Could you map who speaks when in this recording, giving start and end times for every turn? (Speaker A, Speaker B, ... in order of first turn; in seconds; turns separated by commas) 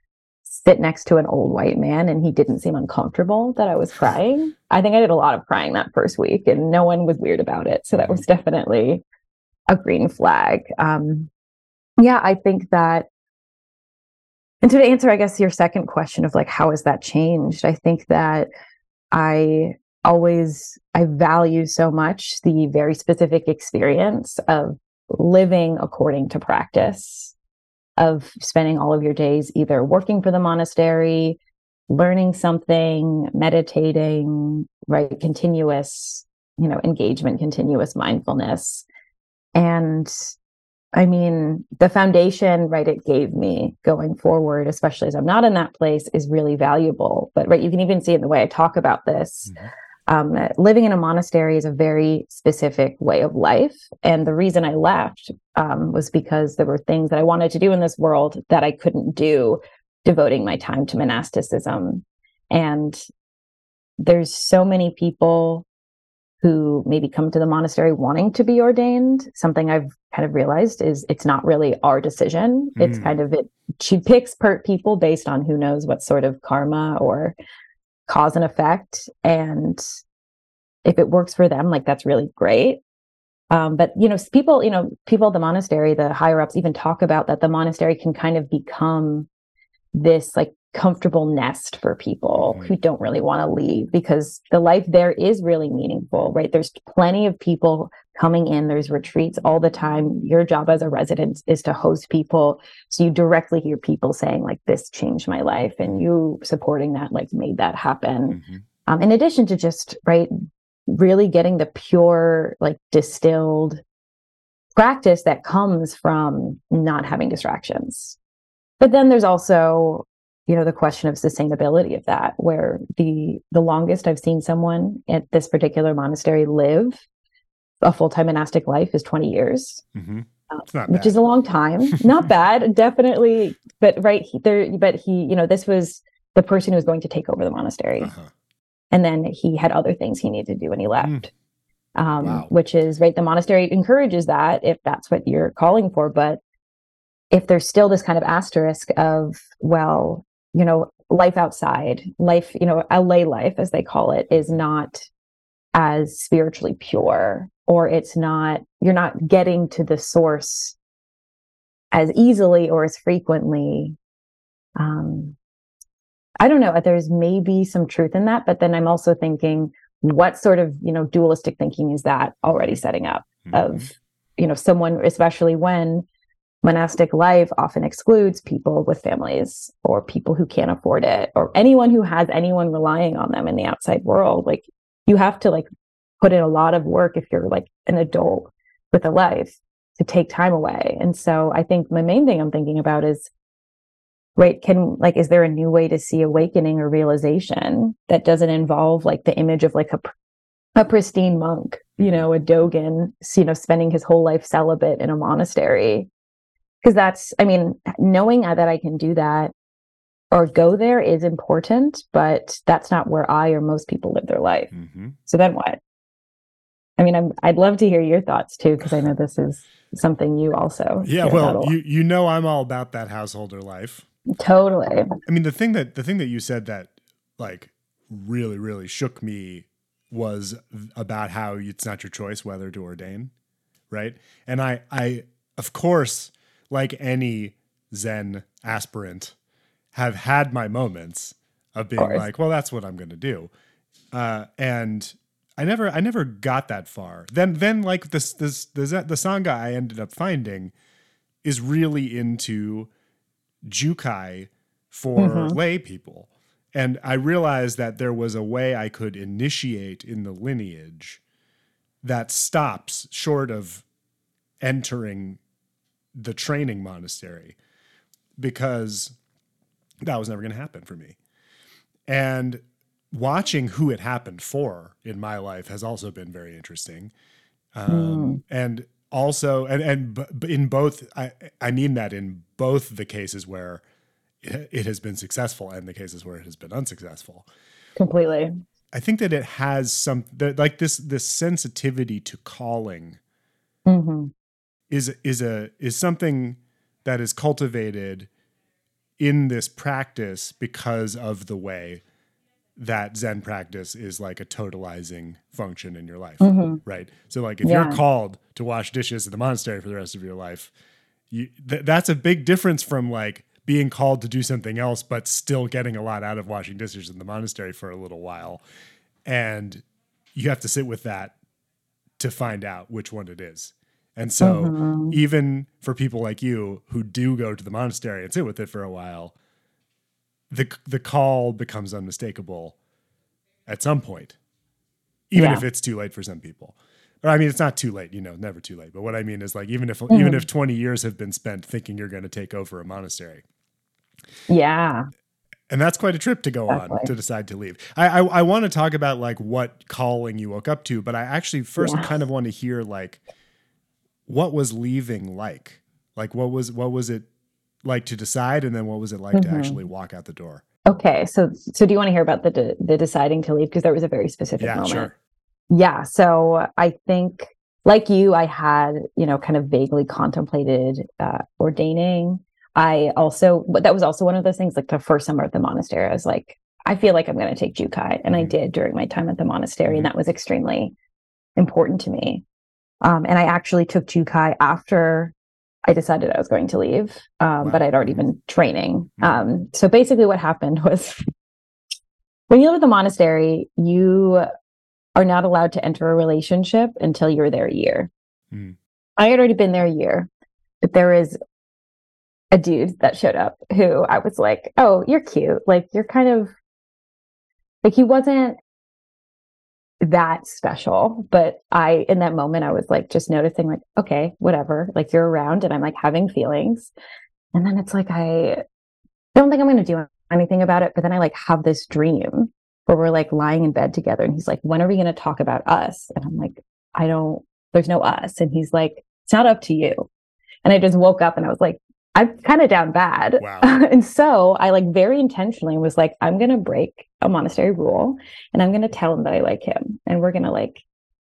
Speaker A: 0.5-9.0, Speaker B: 7.9-8.2, Speaker A: 9.7-11.3, Speaker A: 12.0-13.1, Speaker A: 14.6-18.5, Speaker A: 19.1-27.3, Speaker A: 28.0-38.9, Speaker A: 39.5-40.3, Speaker A: 41.0-63.0, Speaker A: 64.0-65.7, Speaker A: 66.4-77.3, Speaker B: 72.8-73.2, Speaker A: 78.1-79.8, Speaker A: 80.8-82.8, Speaker A: 83.5-89.3, Speaker A: 90.0-110.3, Speaker B: 92.4-92.7, Speaker B: 108.3-108.6, Speaker A: 110.9-113.8, Speaker A: 114.8-118.2, Speaker A: 118.8-127.0, Speaker A: 127.8-129.8, Speaker B: 129.9-131.2, Speaker A: 130.5-138.1, Speaker B: 138.0-138.3, Speaker A: 138.9-141.3, Speaker A: 142.0-146.4, Speaker B: 142.2-142.5, Speaker A: 147.3-155.1, Speaker A: 155.8-160.8, Speaker A: 161.9-164.0, Speaker A: 164.8-165.4, Speaker A: 166.4-176.1, Speaker B: 173.4-173.8, Speaker A: 176.6-185.7, Speaker A: 186.2-193.3, Speaker A: 194.4-200.1, Speaker A: 200.8-206.1, Speaker A: 206.8-209.5, Speaker A: 210.3-214.7, Speaker B: 214.7-215.2, Speaker A: 215.3-215.8, Speaker A: 217.0-221.7, Speaker B: 218.8-219.1, Speaker B: 221.0-224.1, Speaker A: 224.4-225.2, Speaker B: 225.3-233.3, Speaker B: 233.9-239.3, Speaker B: 239.9-243.5, Speaker A: 242.0-242.2, Speaker B: 244.1-250.7, Speaker B: 251.4-252.9, Speaker B: 253.7-261.2, Speaker A: 255.2-255.6, Speaker B: 262.0-263.9, Speaker B: 264.6-265.4, Speaker B: 266.1-267.6, Speaker B: 268.4-269.1, Speaker B: 270.1-271.2, Speaker B: 272.1-272.6, Speaker B: 273.1-277.1, Speaker B: 277.8-283.8, Speaker A: 277.9-278.4, Speaker B: 284.4-287.5, Speaker A: 288.0-288.5, Speaker B: 288.9-293.2, Speaker A: 293.9-294.3, Speaker B: 294.9-298.3, Speaker B: 299.2-302.0, Speaker B: 302.8-310.7, Speaker A: 306.4-306.8, Speaker A: 307.6-308.0, Speaker B: 311.3-318.6, Speaker B: 319.3-319.8, Speaker B: 320.3-321.3, Speaker B: 322.2-329.4, Speaker A: 324.4-325.2, Speaker B: 330.5-332.8, Speaker B: 333.7-334.4, Speaker B: 335.3-343.4, Speaker A: 335.4-335.6, Speaker A: 340.1-340.4, Speaker A: 344.5-345.1, Speaker B: 345.7-353.2, Speaker A: 346.7-347.1, Speaker A: 351.8-352.1, Speaker B: 354.3-357.3, Speaker B: 357.9-360.6, Speaker A: 359.3-359.8, Speaker A: 360.9-365.1, Speaker B: 364.6-365.1, Speaker A: 365.7-380.9, Speaker A: 381.6-382.4, Speaker A: 383.0-385.3, Speaker A: 385.9-391.2, Speaker B: 387.6-388.2, Speaker A: 392.5-394.5, Speaker A: 395.2-398.1, Speaker A: 399.2-400.3, Speaker A: 400.8-401.4, Speaker A: 402.5-406.5, Speaker A: 407.8-408.6, Speaker A: 410.0-416.9, Speaker A: 417.5-418.6, Speaker A: 419.4-430.1, Speaker A: 430.6-440.8, Speaker B: 433.4-433.8